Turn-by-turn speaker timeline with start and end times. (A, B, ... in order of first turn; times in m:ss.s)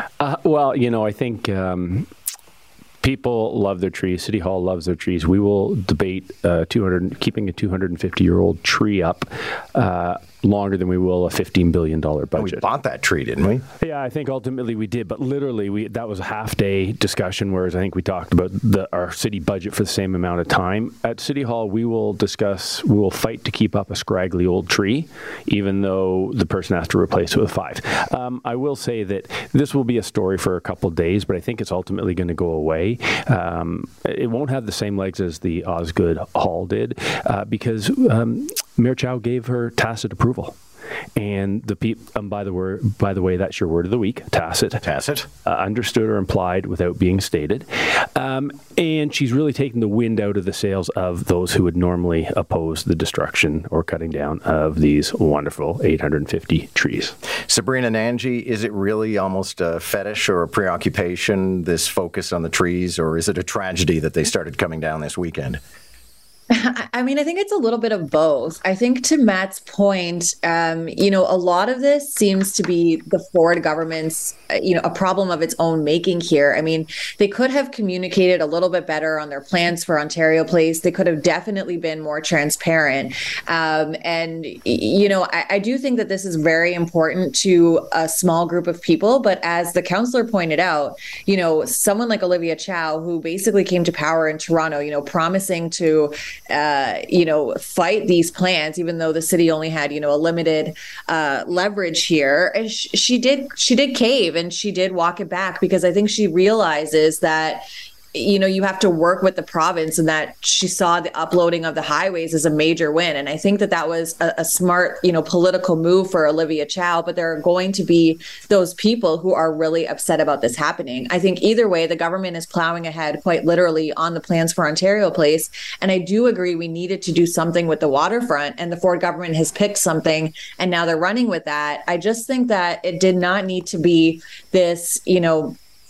0:00.2-0:02.1 A
0:03.0-0:12.7 A
0:12.4-0:13.6 B
0:13.8-0:40.6 A
0:41.2-0:44.8 A
0:44.8-0:45.3 B
0:45.5-0:57.1 A
0:57.5-1:05.6 B
1:06.5-2:15.6 C